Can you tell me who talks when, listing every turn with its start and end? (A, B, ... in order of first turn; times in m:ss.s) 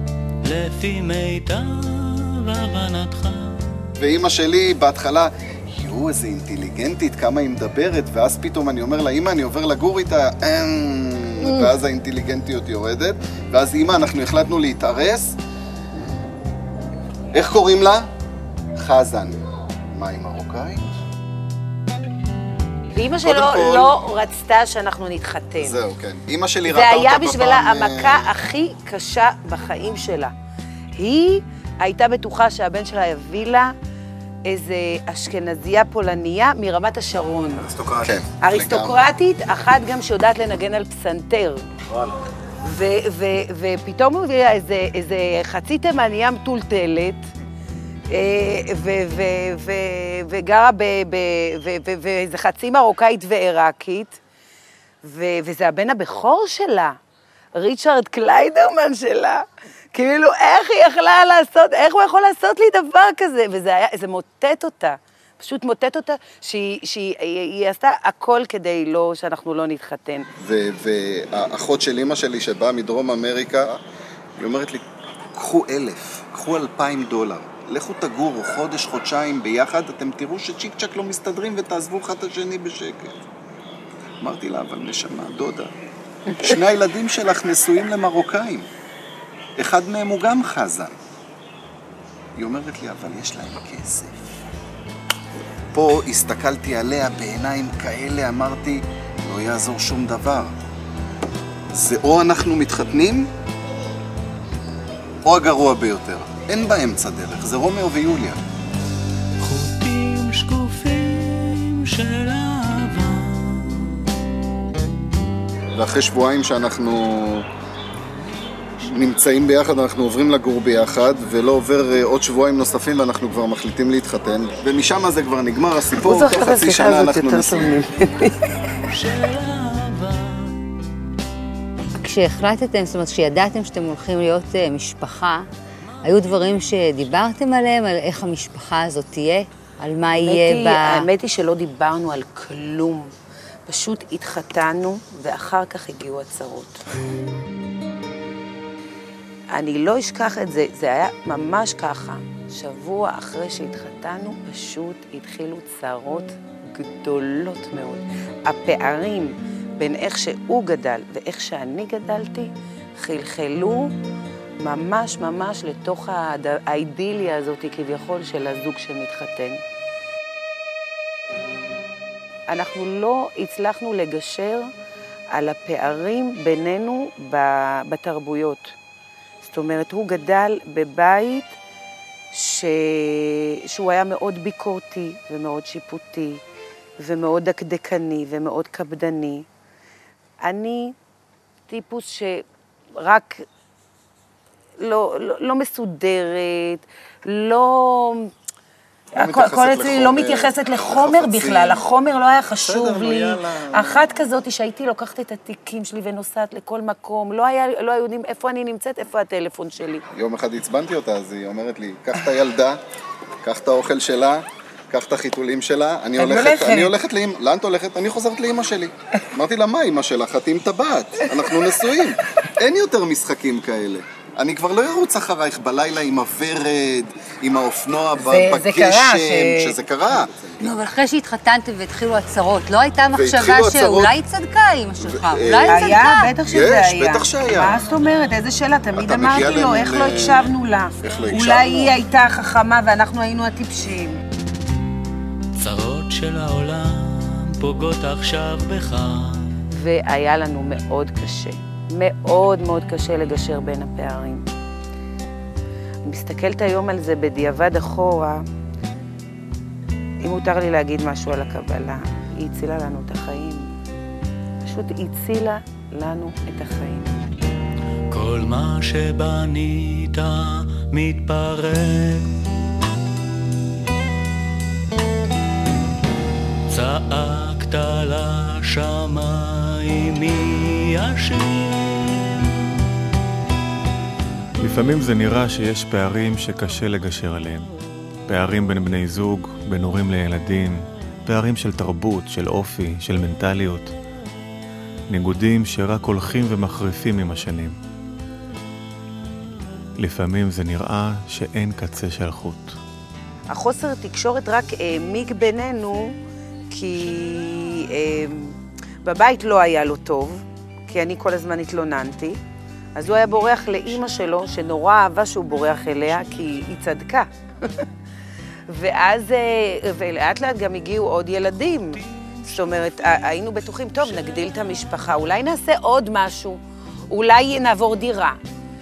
0:00.4-0:03.8 A
0:04.0-0:15.4 B
0:17.3-0:18.1 B
0:18.7-0:19.4 B
0:19.9-0:20.8 B
0:22.9-0:25.8 C
0:23.2-0:24.0 B
0:25.6-0:28.3 B
0:26.7-0:30.3 C
0:31.0-0:33.7 C
0:34.4-0:37.7 C
0:37.7-0:39.0 B
0:38.4-0:41.7 C
0:42.6-0:47.3 C
0:48.1-0:54.2 C
0:55.0-0:57.0 C
0:57.5-1:10.3 C
1:10.4-1:13.8 B
1:14.4-1:23.2 B
1:24.2-1:25.7 B
1:26.4-1:28.7 B
1:29.6-1:31.0 B
1:32.4-1:34.3 B
1:35.7-1:40.5 B
1:41.7-1:43.3 B
1:45.2-1:48.4 B
1:49.4-1:54.0 A
1:55.7-1:57.5 B
1:58.9-2:07.7 B
2:06.0-2:08.6 C
2:08.9-2:10.6 A
2:12.0-2:15.4 D
2:16.0-2:21.0 D
2:20.2-2:23.1 C
2:23.7-2:26.8 C
2:29.5-2:43.9 C
2:44.6-2:49.6 C
2:52.5-2:54.7 C
2:55.3-2:58.7 C
2:59.4-3:01.5 C
3:02.3-3:06.4 C
3:07.0-3:09.4 C
3:10.4-3:10.9 C
3:11.7-3:12.4 C
3:12.9-3:13.4 C
3:14.8-3:18.3 C
3:19.1-3:30.0 C
3:19.2-3:21.8 B
3:22.6-3:24.0 B
3:30.1-3:32.8 B
3:33.4-3:50.7 B
3:36.2-3:36.9 C
3:48.2-3:49.7 C
3:50.6-3:56.3 D
3:53.1-3:54.1 B
3:55.0-3:57.8 B
3:55.6-4:04.2 C
3:59.0-4:02.0 B
4:05.6-4:09.6 A
4:09.7-4:14.4 C
4:16.0-4:18.4 C
4:20.2-4:23.7 C
4:24.6-4:27.2 C
4:28.1-4:32.5 A
4:36.7-4:42.8 A
4:44.6-4:47.7 E
4:48.3-4:53.9 E
4:55.1-4:57.8 E
5:00.0-5:02.8 E
5:03.5-5:06.2 C
5:06.7-5:12.4 C
5:12.9-5:17.8 C
5:18.7-5:28.4 C